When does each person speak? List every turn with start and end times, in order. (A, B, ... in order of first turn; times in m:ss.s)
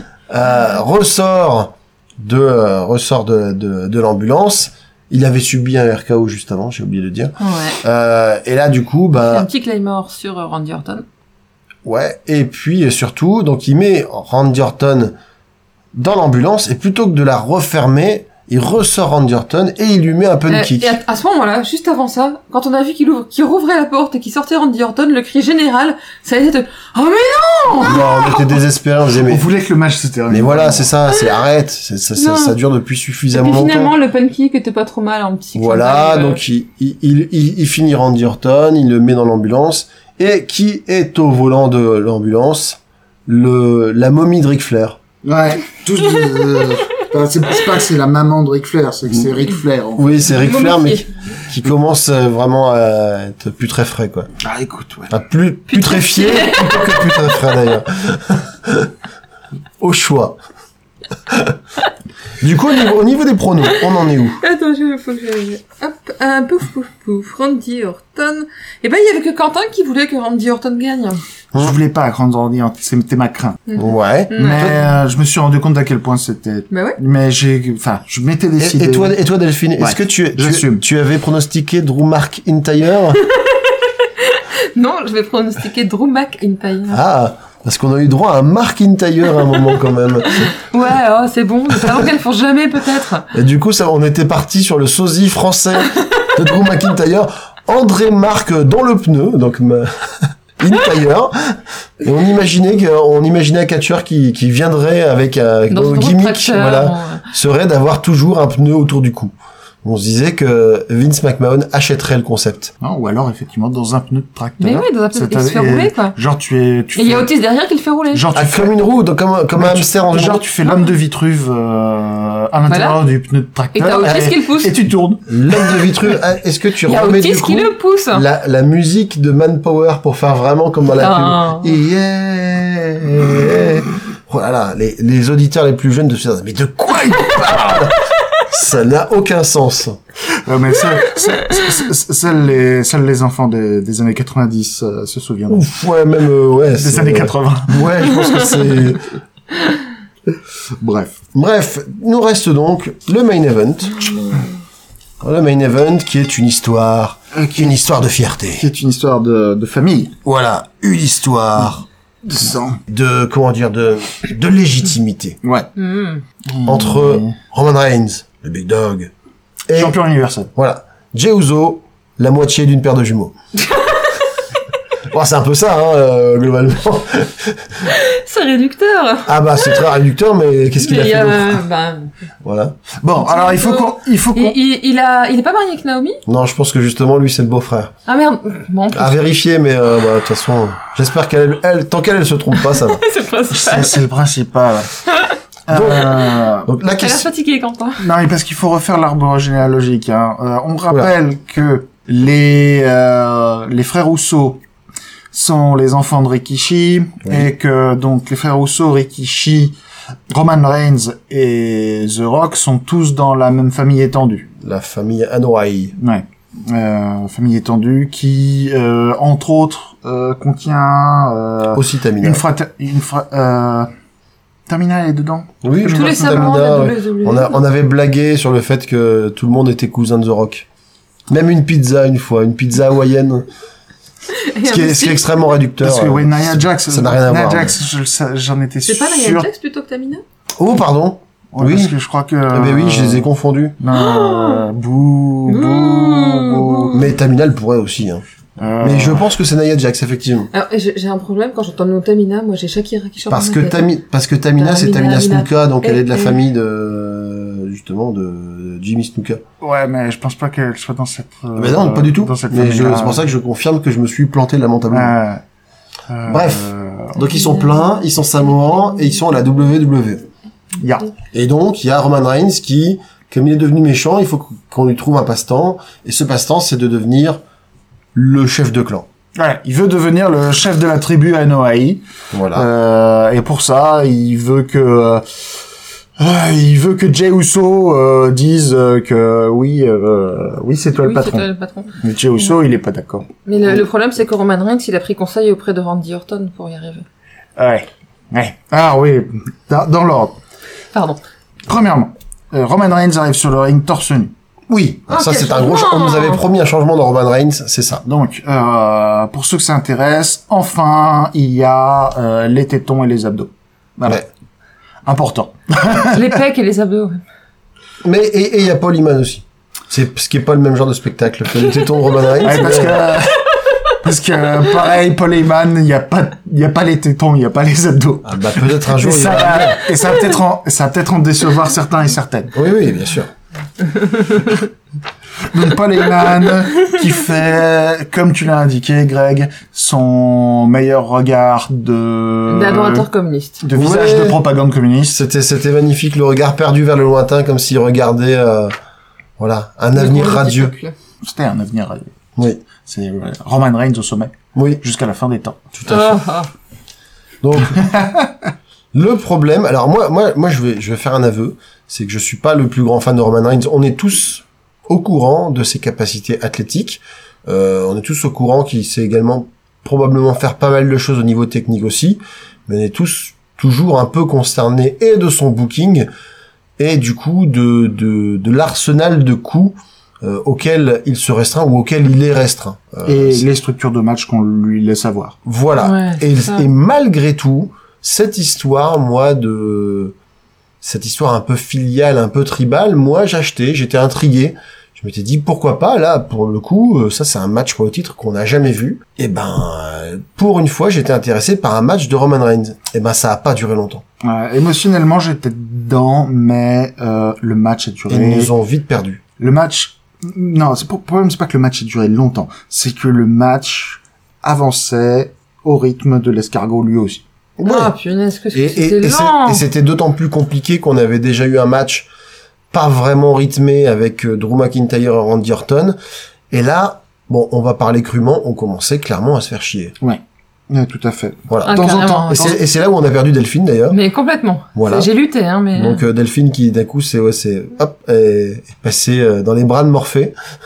0:00.3-0:09.5 A
0:07.4-0:07.8 B
0:09.1-0:11.0 B
0:11.8-0:15.1 A
0:15.9-0:21.0 A
0:20.5-0:28.6 B
0:27.8-0:29.4 A
0:29.2-0:30.9 C
0:30.3-0:33.9 A
0:32.2-0:32.6 B
0:33.3-0:36.4 B
0:35.5-0:45.0 A
0:45.2-0:50.2 C
0:50.0-0:54.3 A
0:50.4-0:51.1 B
0:54.4-0:55.1 C
0:55.1-0:58.9 A
0:55.7-0:57.1 B
0:59.8-1:00.4 A
1:01.3-1:01.5 A
1:02.4-1:04.4 A
1:04.4-1:11.2 B
1:11.5-1:13.6 C
1:13.7-1:14.8 B
1:13.8-1:14.6 A
1:14.3-1:19.1 C
1:16.7-1:17.0 B
1:18.6-1:23.2 A
1:19.8-1:20.8 C
1:23.3-1:27.0 B
1:26.9-1:30.6 A
1:30.2-1:33.3 B
1:33.3-1:49.3 A
1:45.7-1:47.2 B
1:49.8-1:52.7 A
1:52.8-1:57.3 C
1:54.6-1:56.2 B
1:57.0-1:58.2 B
1:58.1-1:58.7 C
1:58.3-2:00.4 A
1:59.6-2:05.9 C
2:02.7-2:03.0 B
2:03.7-2:04.7 B
2:05.3-2:20.0 A
2:06.8-2:08.2 B
2:11.0-2:11.8 B
2:17.5-2:17.8 C
2:20.4-2:25.6 C
2:25.5-2:29.0 A
2:26.7-2:28.0 C
2:30.8-2:31.2 C
2:31.3-2:34.1 A
2:35.2-2:38.6 A
2:37.3-2:37.8 C
2:38.5-2:40.2 C
2:40.2-2:41.9 A
2:42.2-2:42.8 C
2:42.9-2:45.4 A
2:45.4-2:45.7 C
2:45.8-2:46.2 B
2:46.4-2:47.4 C
2:46.6-2:49.1 A
2:49.7-2:50.0 A
2:49.7-2:50.5 C
2:50.5-2:53.3 A
2:53.7-2:54.1 B
2:55.1-2:57.8 A
2:57.9-2:59.8 B
2:59.2-3:01.6 A
3:00.8-3:02.1 B
3:02.4-3:02.8 A
3:03.0-3:04.6 C
3:03.2-3:06.2 B
3:06.2-3:07.9 A
3:08.1-3:09.2 B
3:08.9-3:13.0 A
3:12.6-3:14.0 B
3:13.5-3:14.9 C
3:15.7-3:16.7 C
3:15.7-3:17.3 A
3:17.0-3:18.0 B
3:18.0-3:24.6 C
3:25.3-3:29.7 C
3:27.2-3:27.5 A
3:30.3-3:34.5 C
3:34.6-3:35.9 A
3:36.0-3:43.9 C
3:41.7-3:42.4 A
3:44.7-3:46.6 C
3:45.6-3:50.7 A
3:45.8-3:47.6 B
3:51.3-3:53.4 A
3:54.3-3:55.4 B
3:54.7-3:57.7 A
3:55.8-3:59.5 C
3:58.8-4:00.2 B
4:00.6-4:01.9 A
4:01.5-4:03.3 C
4:02.5-4:03.8 A
4:03.8-4:07.0 C
4:03.9-4:04.6 B
4:05.5-4:07.0 B
4:06.9-4:08.2 A
4:08.6-4:09.3 C
4:08.8-4:10.5 A
4:10.5-4:13.9 B
4:13.3-4:19.4 A
4:14.6-4:16.4 B
4:19.6-4:23.3 C
4:21.6-4:25.1 A
4:24.9-4:25.4 C
4:26.1-4:27.2 C
4:26.3-4:30.2 A
4:27.3-4:27.8 B
4:30.8-4:31.1 C
4:31.3-4:37.4 A
4:38.1-4:39.1 A
4:39.4-4:45.2 C
4:42.3-4:42.6 A
4:46.2-4:53.8 C
4:51.0-4:51.9 B
4:53.4-4:57.0 B
4:57.6-5:00.4 C
5:00.9-5:01.2 B
5:01.7-5:04.3 C
5:04.7-5:08.0 A
5:05.1-5:06.4 B
5:08.0-5:14.2 C
5:15.0-5:16.4 C
5:16.0-5:17.2 B
5:18.0-5:23.1 A
5:22.4-5:32.5 C
5:28.2-5:29.9 A
5:32.5-5:33.3 A
5:33.8-5:34.6 B
5:35.5-5:43.1 C
5:42.5-5:43.6 B
5:43.6-5:45.2 C
5:43.7-5:44.4 A
5:45.1-5:48.7 A
5:49.4-5:50.7 A
5:49.9-5:50.9 B
5:51.2-5:52.1 C
5:52.4-5:52.6 A
5:52.8-5:55.6 C
5:54.5-5:54.8 A
5:55.7-5:56.2 A
5:55.9-5:56.5 B
5:57.4-5:58.0 A
5:57.7-5:58.3 C
5:58.9-6:16.1 A
6:16.8-6:23.4 A
6:23.0-6:25.4 C
6:25.4-6:30.1 A
6:25.8-6:26.7 B
6:30.8-6:44.0 A
6:44.2-6:48.5 C
6:48.1-6:49.2 A
6:49.4-6:57.2 C
6:57.6-6:57.9 A
6:57.6-6:59.6 B
6:58.5-7:02.1 A
7:02.7-7:06.0 A
7:06.5-7:10.0 A
7:10.0-7:12.6 C
7:11.5-7:14.0 A
7:11.6-7:12.5 B
7:13.9-7:16.0 B
7:14.8-7:15.1 A
7:15.7-7:20.3 A